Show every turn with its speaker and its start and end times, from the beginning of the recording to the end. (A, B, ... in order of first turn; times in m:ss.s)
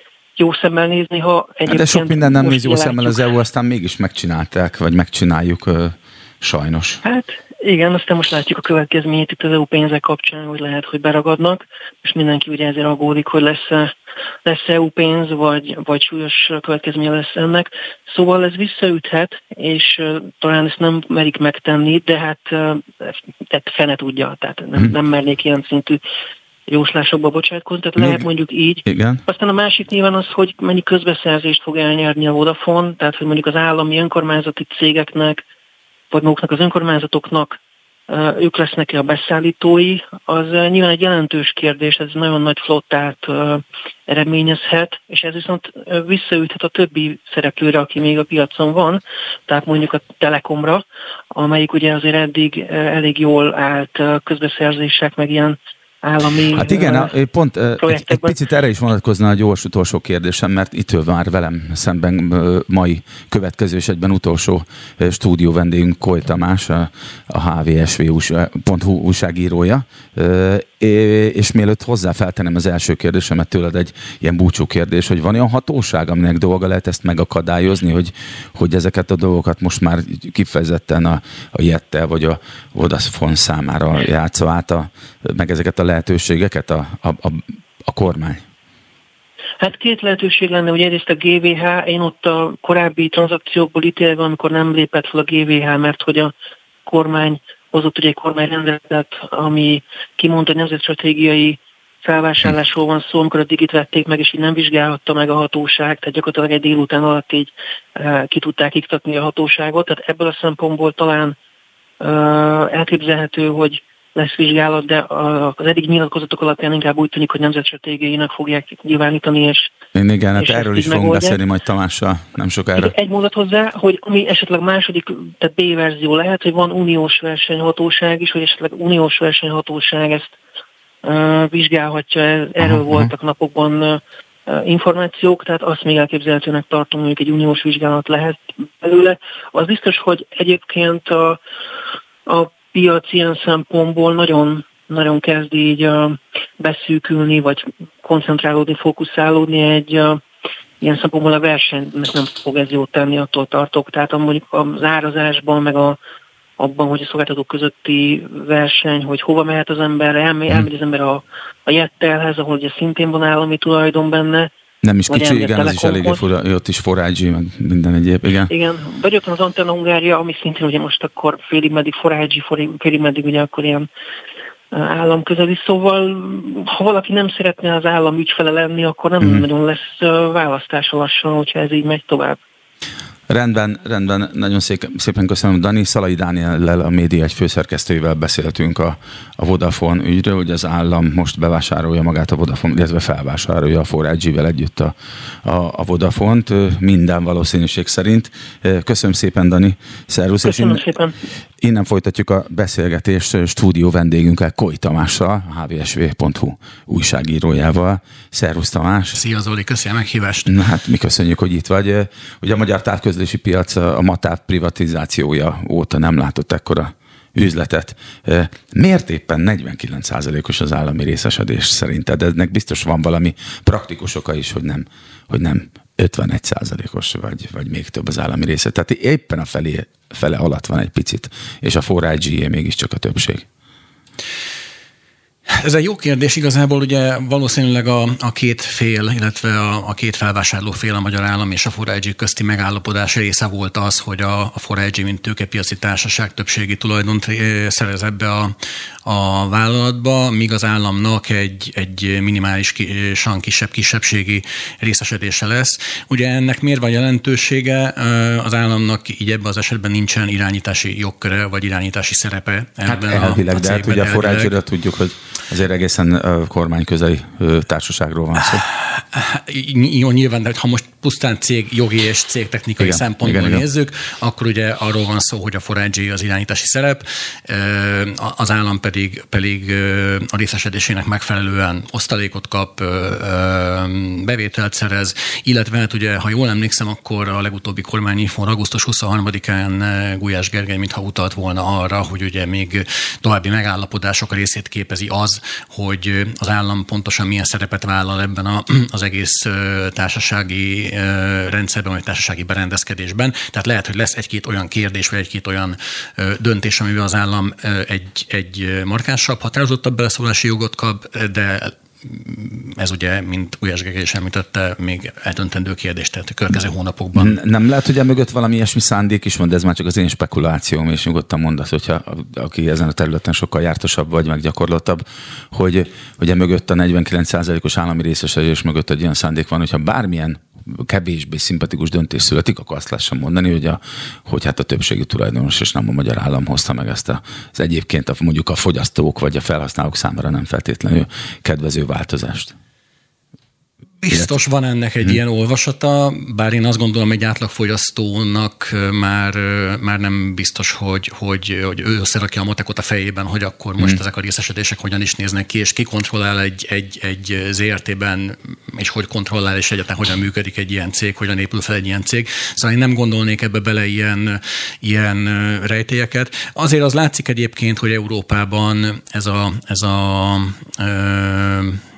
0:00.4-0:03.3 A
0:01.7-0:07.0 B
0:07.0-0:13.9 A
0:14.4-0:26.0 A
0:26.7-0:35.4 A
0:28.0-0:28.2 B
0:28.8-0:29.2 B
0:36.1-0:37.6 A
0:38.1-0:57.1 A
0:56.5-1:28.4 B
0:57.8-0:58.4 A
1:29.6-1:36.3 A
1:36.8-1:51.4 A
1:52.0-1:59.7 A
1:59.9-2:02.9 B
2:00.4-2:01.4 A
2:02.8-2:10.3 A
2:11.0-2:21.4 A
2:12.6-2:13.1 B
2:22.2-2:30.2 A
2:30.8-2:36.0 A
2:36.6-2:44.5 A
2:44.8-2:48.5 B
2:45.1-2:46.2 A
2:48.5-2:53.9 A
2:54.7-3:02.4 A
3:03.3-3:20.9 B
3:20.4-3:21.2 A
3:21.6-3:29.2 B
3:29.1-3:30.5 C
3:30.4-3:53.4 B
3:55.5-4:24.5 C
4:22.8-4:28.6 B
4:28.5-5:17.4 C
4:32.8-4:33.6 B
5:17.1-5:42.5 B
5:44.0-6:11.8 C